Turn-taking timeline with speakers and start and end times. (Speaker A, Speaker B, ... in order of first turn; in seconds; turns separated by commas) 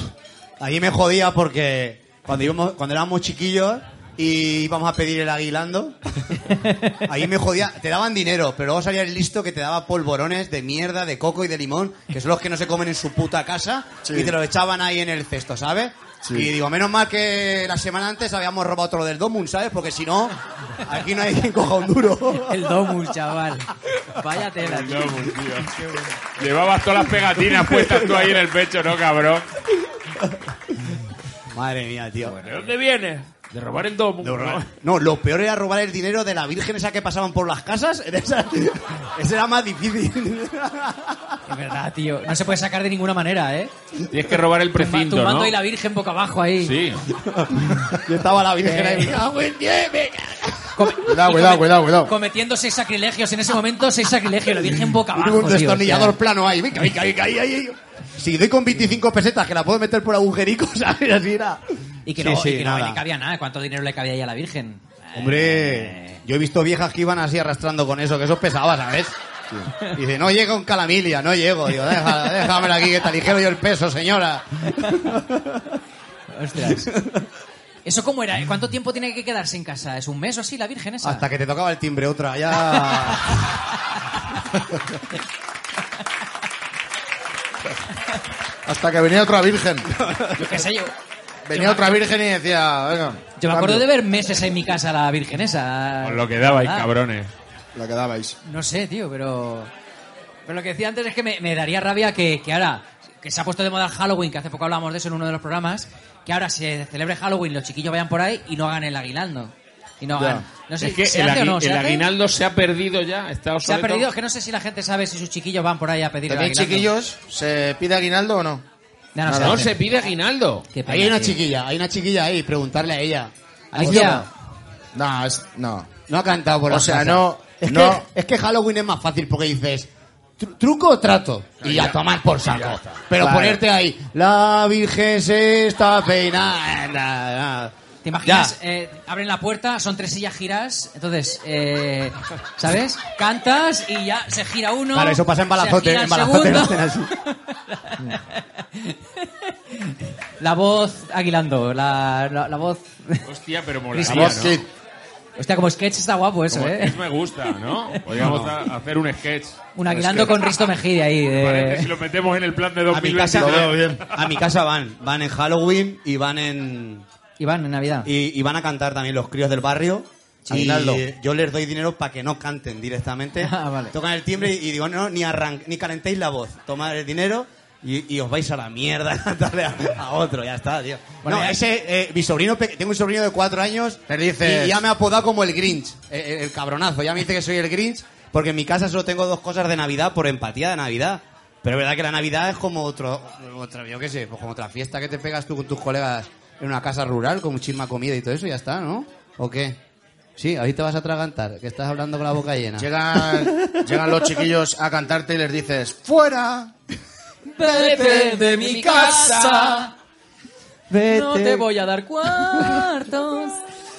Speaker A: 0.6-6.4, Speaker B: 6.5-7.1, Speaker A: 7.0-22.9, Speaker C: 14.1-14.3, Speaker C: 16.2-16.5, Speaker B: 22.4-26.1, Speaker D: 24.5-25.8, Speaker D: 26.4-29.5, Speaker A: 27.5-28.3, Speaker A: 30.0-32.4, Speaker B: 32.2-32.7, Speaker D: 32.4-34.6, Speaker A: 34.2-41.4, Speaker B: 41.5-43.7, Speaker D: 44.1-45.6, Speaker B: 44.7-46.8, Speaker D: 46.6-47.1, Speaker A: 47.1-50.8, Speaker B: 48.6-49.2, Speaker B: 50.7-56.1, Speaker C: 51.0-52.1, Speaker A: 55.0-63.0, Speaker B: 62.1-66.2, Speaker A: 65.1-69.2, Speaker A: 69.8-75.8, Speaker B: 76.3-76.9, Speaker A: 76.6-77.2, Speaker B: 77.8-81.3, Speaker A: 81.0-83.6, Speaker B: 82.7-83.3, Speaker C: 88.7-89.9, Speaker A: 89.9-90.7, Speaker B: 90.3-90.9, Speaker C: 91.5-93.9, Speaker B: 91.5-92.0, Speaker B: 93.4-96.9, Speaker D: 96.0-97.3, Speaker C: 97.8-98.4, Speaker B: 98.4-99.7, Speaker B: 100.5-112.0, Speaker C: 110.2-110.5, Speaker D: 110.8-114.1, Speaker B: 113.6-116.9, Speaker C: 116.3-118.6, Speaker B: 119.2-119.8, Speaker C: 119.2-119.7, Speaker D: 119.4-120.7, Speaker B: 120.7-121.4, Speaker A: 120.8-124.3, Speaker B: 123.7-124.3, Speaker C: 123.8-124.2, Speaker C: 125.0-125.9, Speaker A: 126.1-138.6, Speaker C: 126.7-128.1, Speaker D: 131.6-133.0, Speaker C: 133.1-133.6, Speaker B: 138.0-153.3, Speaker A: 144.9-147.1, Speaker D: 153.2-154.6, Speaker B: 153.9-154.5, Speaker C: 154.0-154.7, Speaker B: 155.4-157.0, Speaker D: 156.5-159.6, Speaker A: 158.1-158.6, Speaker B: 159.8-161.9, Speaker A: 159.9-160.3, Speaker D: 161.4-164.3, Speaker A: 162.9-167.1, Speaker C: 163.4-164.0, Speaker B: 167.4-168.1, Speaker A: 168.0-199.8, Speaker C: 170.5-171.0, Speaker B: 173.4-173.9, Speaker B: 181.2-181.6, Speaker C: 184.1-184.8, Speaker A: 200.4-204.1, Speaker C: 202.8-206.7, Speaker B: 207.5-209.9, Speaker A: 207.6-209.9, Speaker D: 208.6-209.6, Speaker A: 210.9-211.7, Speaker B: 211.0-213.6, Speaker A: 212.4-212.9